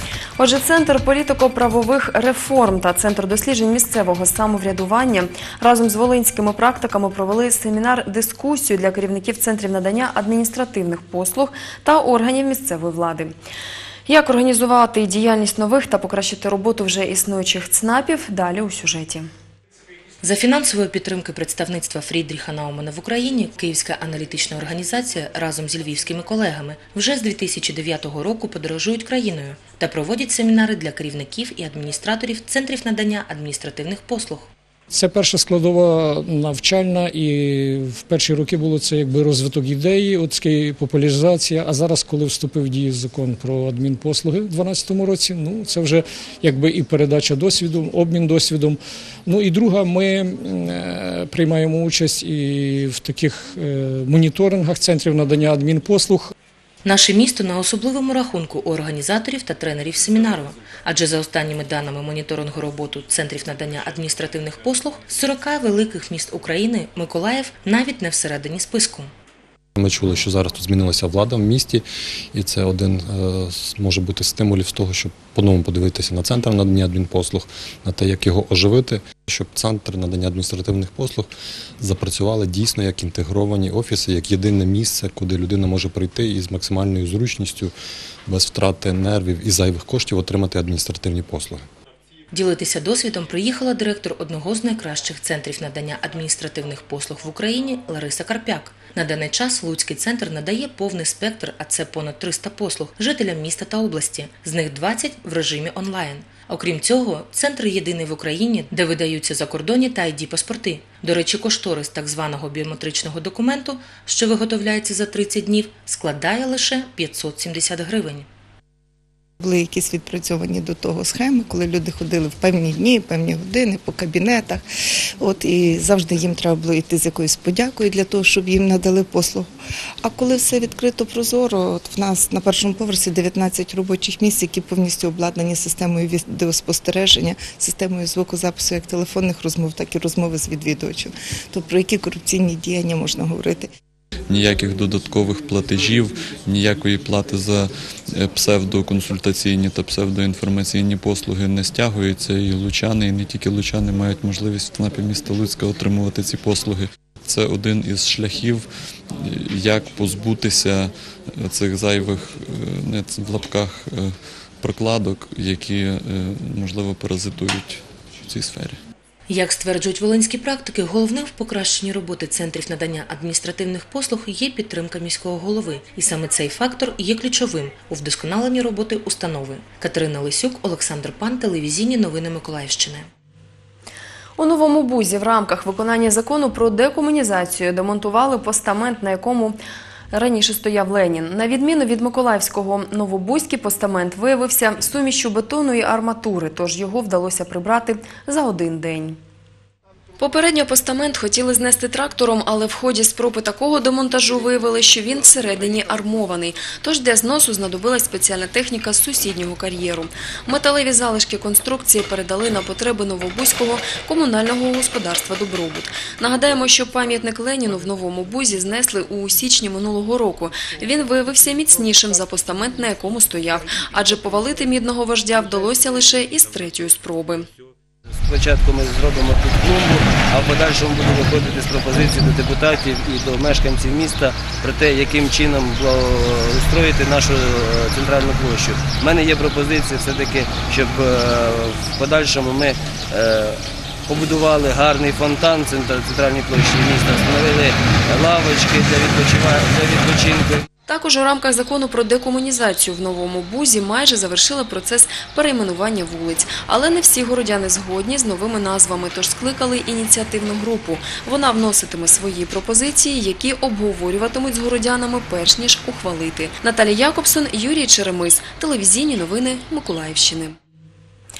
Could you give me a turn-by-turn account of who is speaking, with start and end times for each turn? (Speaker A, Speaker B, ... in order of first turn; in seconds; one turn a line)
Speaker A: 0.4-13.3
Speaker A: 14.1-19.3
Speaker B: 20.2-34.5
Speaker C: 34.9-56.3
Speaker B: 56.9-69.1
Speaker D: 69.8-87.7
Speaker D: 88.3-91.6
Speaker B: 92.3-118.3
Speaker E: 119.4-124.6
Speaker E: 125.2-129.5
Speaker E: 130.0-143.7
Speaker F: 144.3-147.7
Speaker F: 148.2-158.7
Speaker F: 159.2-168.8
Speaker B: 169.3-183.1
Speaker A: 184.4-189.6
Speaker A: 190.1-199.2
Speaker A: 200.2-227.5
Speaker G: 228.2-250.7
Speaker A: 250.9-270.6